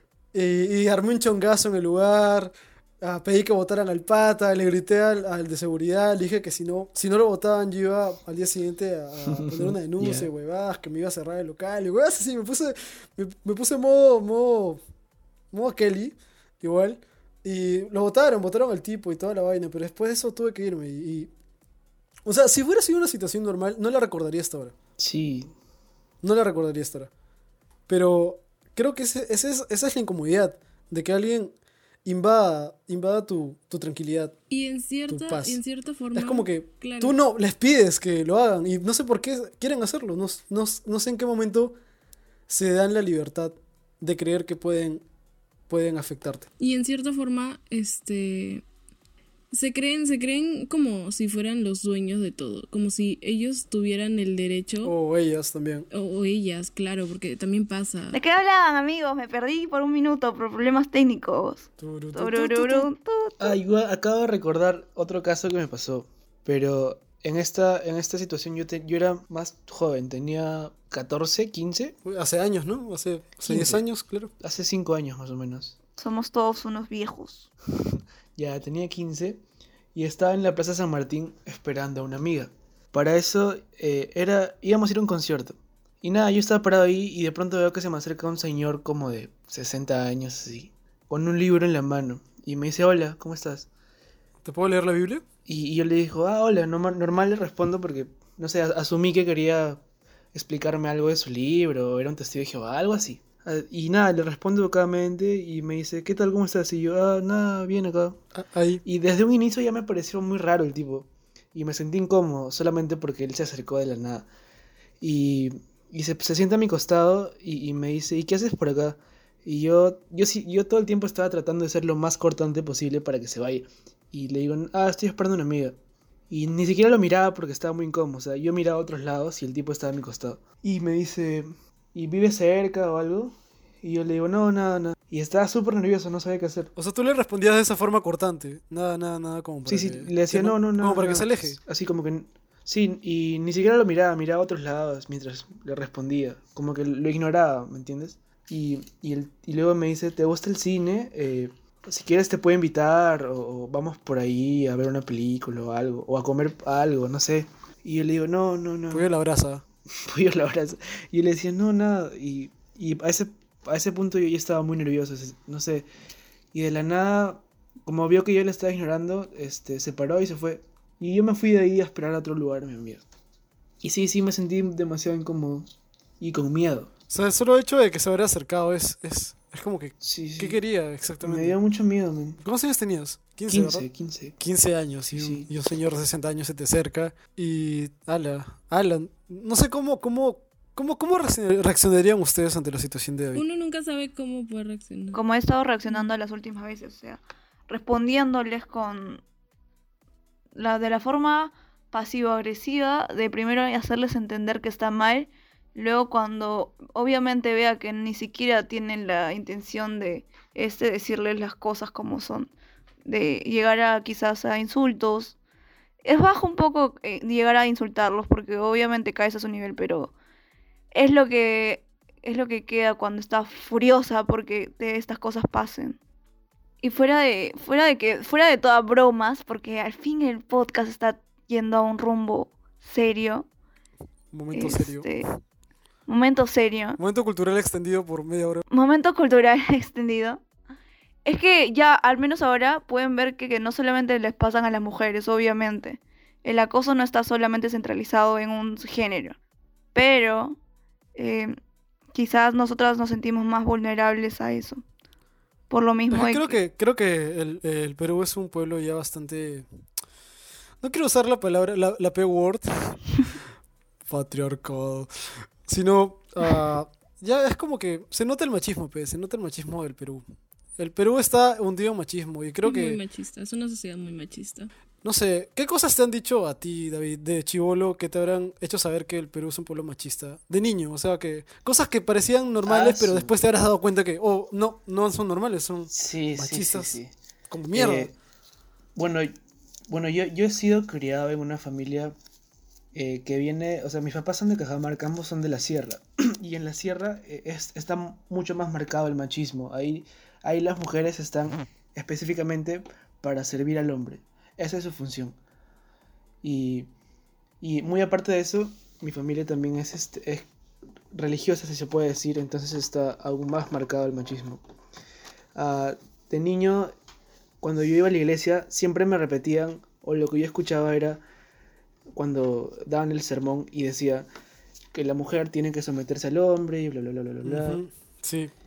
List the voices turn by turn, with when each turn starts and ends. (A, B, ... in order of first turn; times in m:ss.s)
0:00.3-0:14.8 A
0:09.4-0:10.3 B
0:15.5-0:21.3 A
0:22.2-0:24.7 A
0:25.0-0:25.5 B
0:26.2-0:27.1 A
0:27.9-0:31.5 A
0:32.0-0:34.4 A
0:34.5-0:37.2 C
0:35.1-0:35.6 A
0:36.2-0:41.8 A
0:42.5-0:45.0 A
0:45.7-0:46.5 A
0:46.6-0:48.6 C
0:49.5-0:54.9 C
0:54.8-0:55.9 A
0:55.9-0:58.2 C
0:58.1-1:03.6 D
1:01.8-1:02.9 A
1:03.4-1:12.0 B
1:12.0-1:14.3 A
1:13.5-1:13.8 B
1:14.4-1:15.8 B
1:16.0-1:17.5 D
1:17.9-1:19.4 B
1:20.0-1:33.7 B
1:34.4-1:35.2 A
1:35.5-1:39.8 B
1:40.3-1:48.2 B
1:48.4-1:48.8 A
1:48.8-1:54.3 B
1:55.0-2:05.8 B
2:06.3-2:16.7 B
2:16.8-2:21.6 A
2:19.7-2:39.0 B
2:38.9-2:39.6 A
2:40.0-2:45.9 B
2:46.5-2:53.0 B
2:53.8-2:56.9 B
2:57.1-3:01.6 A
3:00.0-3:00.6 B
3:01.2-3:02.4 B
3:02.4-3:03.9 A
3:03.5-3:04.4 B
3:04.4-3:13.4 A
3:05.1-3:05.5 B
3:13.4-3:15.2 C
3:15.1-3:19.2 D
3:20.6-3:32.5 D
3:33.0-3:35.4 D
3:36.0-3:40.1 D
3:40.9-3:46.0 D
3:46.8-3:53.5 D
3:54.3-3:55.1 A
3:54.5-3:55.3 D
3:56.1-3:57.0 D
3:57.0-3:58.6 A
3:58.7-4:00.4 D
4:01.2-4:09.4 D
4:09.9-4:10.6 D
4:11.2-4:11.6 D
4:12.1-4:14.8 D
4:15.7-4:16.6 D
4:16.1-4:19.7 A
4:20.8-4:23.0 A
4:24.1-4:30.2 A
4:30.8-4:33.0 A
4:32.6-4:34.7 C
4:35.0-4:47.0 A
4:42.6-4:43.3 B
4:45.9-4:47.1 B
4:47.5-4:48.1 A
4:47.7-4:48.1 B
4:49.0-4:49.4 B
4:49.9-4:52.2 B
4:52.9-5:05.4 B
5:06.4-5:06.9 B
5:07.6-5:10.5 B
5:11.1-5:14.6 B
5:15.6-5:16.9 B
5:17.6-5:21.2 B
5:22.1-5:24.3 B
5:24.9-5:27.8 B
5:27.4-5:28.5 A